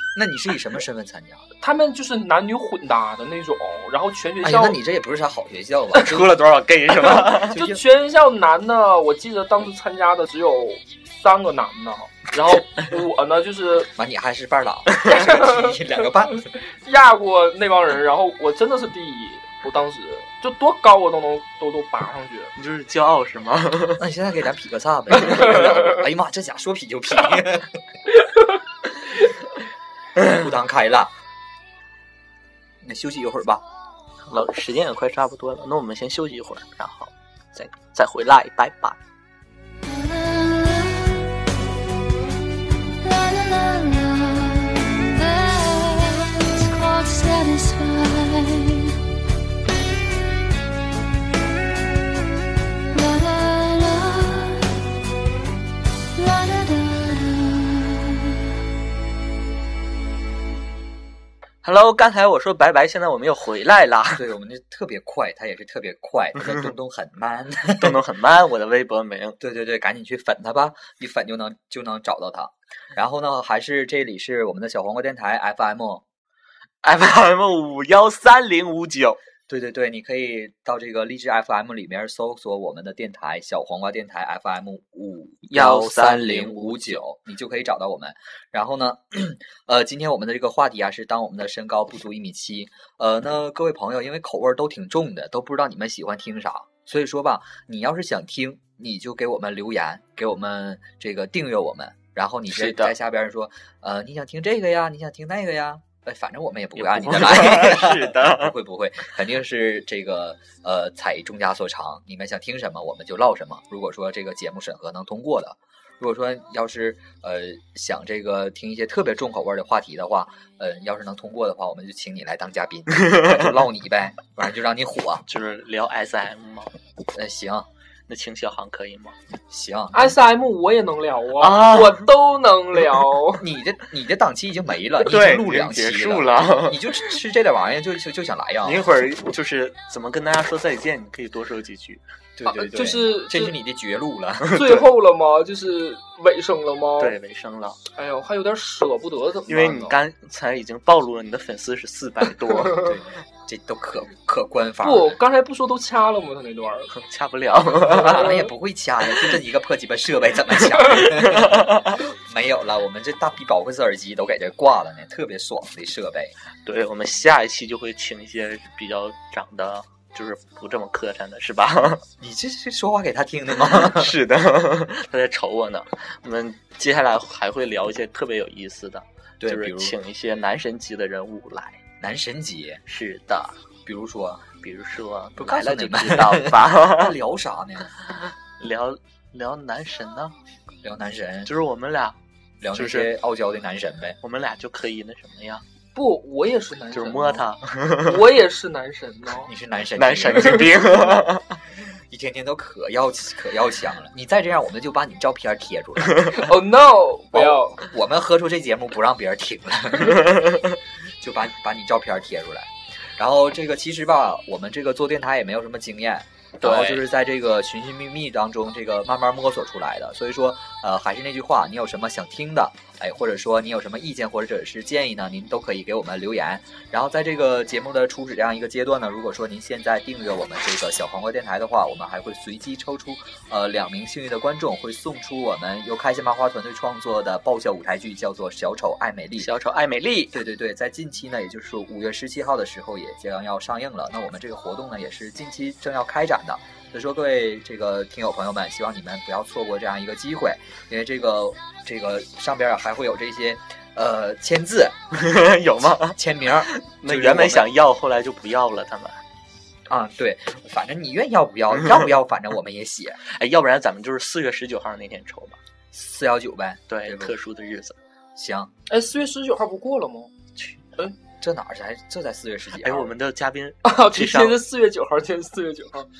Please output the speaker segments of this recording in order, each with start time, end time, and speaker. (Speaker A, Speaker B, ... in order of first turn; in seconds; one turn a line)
Speaker A: 0.1-1.4
Speaker B: 1.6-4.8
Speaker A: 4.4-6.3
Speaker C: 5.9-7.6
Speaker B: 6.9-13.9
Speaker A: 7.5-7.8
Speaker A: 13.9-16.5
Speaker B: 15.0-22.5
Speaker C: 22.6-24.0
Speaker A: 24.0-27.8
Speaker A: 30.2-31.1
Speaker A: 32.8-33.6
Speaker C: 34.3-39.0
Speaker D: 39.8-41.4
Speaker D: 43.0-49.0
Speaker D: 52.9-54.8
Speaker D: 56.1-58.4
Speaker C: 61.6-64.2
Speaker A: 64.1-68.0
Speaker C: 67.8-69.4
Speaker A: 69.4-76.0
Speaker C: 76.8-79.2
Speaker A: 79.5-125.2
Speaker C: 85.5-87.0
Speaker C: 102.5-102.9
Speaker C: 106.8-108.5
Speaker C: 125.3-126.7
Speaker A: 127.1-127.7
Speaker C: 128.1-129.1
Speaker A: 129.5-130.2
Speaker B: 129.9-133.4
Speaker C: 131.4-132.1
Speaker A: 133.4-138.8
Speaker C: 135.0-137.1
Speaker C: 138.6-142.0
Speaker A: 142.4-144.7
Speaker B: 142.4-143.6
Speaker C: 144.5-144.8
Speaker B: 144.5-147.2
Speaker C: 147.0-147.8
Speaker B: 147.9-150.0
Speaker C: 149.5-153.0
Speaker A: 152.7-155.2
Speaker B: 154.8-156.9
Speaker C: 156.9-158.4
Speaker A: 157.8-166.3
Speaker B: 157.9-158.5
Speaker C: 161.0-162.0
Speaker C: 166.7-172.0
Speaker A: 172.2-174.2
Speaker C: 173.7-181.8
Speaker A: 179.4-180.0
Speaker A: 182.0-182.8
Speaker C: 182.9-183.6
Speaker A: 183.8-184.5
Speaker C: 184.6-187.2
Speaker A: 185.4-187.9
Speaker C: 188.6-190.3
Speaker A: 190.8-191.5
Speaker C: 191.4-192.2
Speaker A: 192.6-194.2
Speaker C: 192.7-193.1
Speaker C: 194.2-195.6
Speaker B: 195.9-197.4
Speaker C: 196.9-198.2
Speaker B: 198.0-199.5
Speaker A: 199.4-201.2
Speaker C: 199.9-201.6
Speaker A: 201.8-206.4
Speaker B: 206.3-207.8
Speaker A: 207.3-210.7
Speaker A: 211.2-239.5
Speaker C: 216.6-217.0
Speaker C: 239.4-240.4
Speaker A: 240.3-255.0
Speaker C: 255.1-259.1
Speaker A: 255.9-257.7
Speaker A: 259.9-263.2
Speaker C: 263.3-265.6
Speaker A: 265.9-267.3
Speaker C: 266.9-267.9
Speaker A: 268.4-268.7
Speaker B: 268.9-270.3
Speaker A: 271.4-273.1
Speaker C: 272.8-274.6
Speaker B: 273.8-276.1